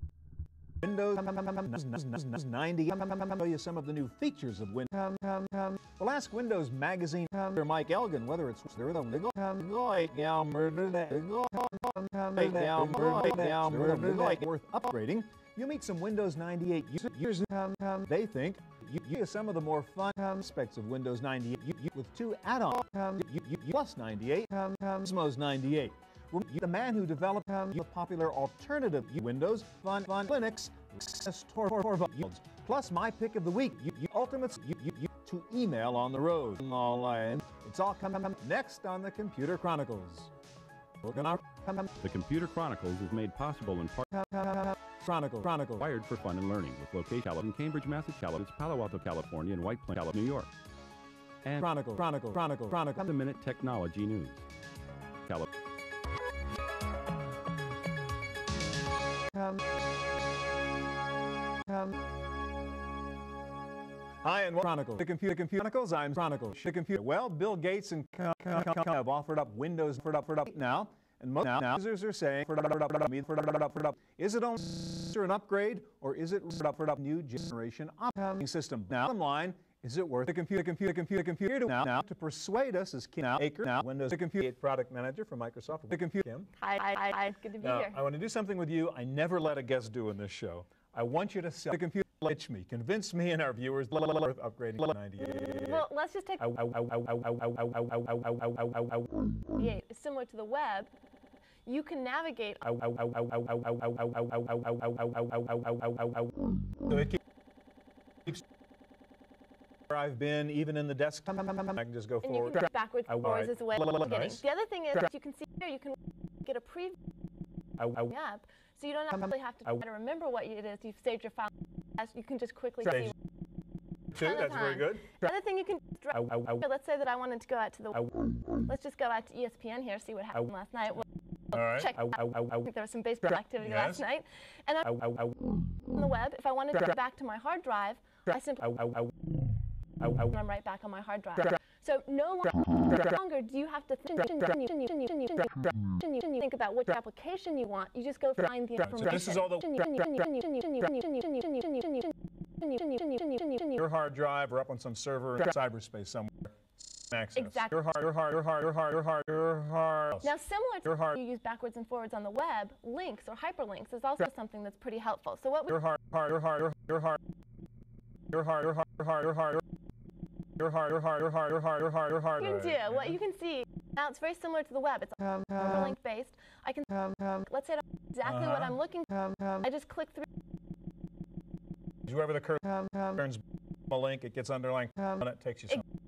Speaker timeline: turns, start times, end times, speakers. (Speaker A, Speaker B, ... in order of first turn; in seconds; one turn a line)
Speaker A: 0.8-5.3
Speaker A: 5.9-40.3
Speaker A: 41.0-41.4
Speaker B: 42.0-44.1
Speaker A: 45.0-45.9
Speaker B: 45.8-50.5
Speaker A: 51.6-53.1
Speaker B: 52.9-54.4
Speaker A: 64.2-86.5
Speaker C: 86.5-88.0
Speaker A: 87.6-95.8
Speaker C: 95.5-96.5
Speaker A: 96.5-99.1
Speaker C: 99.4-100.9
Speaker C: 101.6-102.6
Speaker A: 102.7-106.3
Speaker A: 106.9-107.2
Speaker A: 109.9-112.6
Speaker C: 112.2-117.0
Speaker A: 113.2-114.4
Speaker C: 117.9-123.1
Speaker A: 124.1-125.1
Speaker C: 124.2-139.1
Speaker A: 131.5-131.9
Speaker A: 133.6-134.0
Speaker C: 140.0-153.8
Speaker A: 148.8-149.6
Speaker A: 153.8-160.3
Speaker C: 157.3-157.7
Speaker C: 160.2-165.7
Speaker A: 165.7-167.2
Speaker A: 168.3-169.6
Speaker A: 170.6-173.1
Speaker C: 172.4-180.3
Speaker A: 178.3-178.7
Speaker A: 182.1-185.8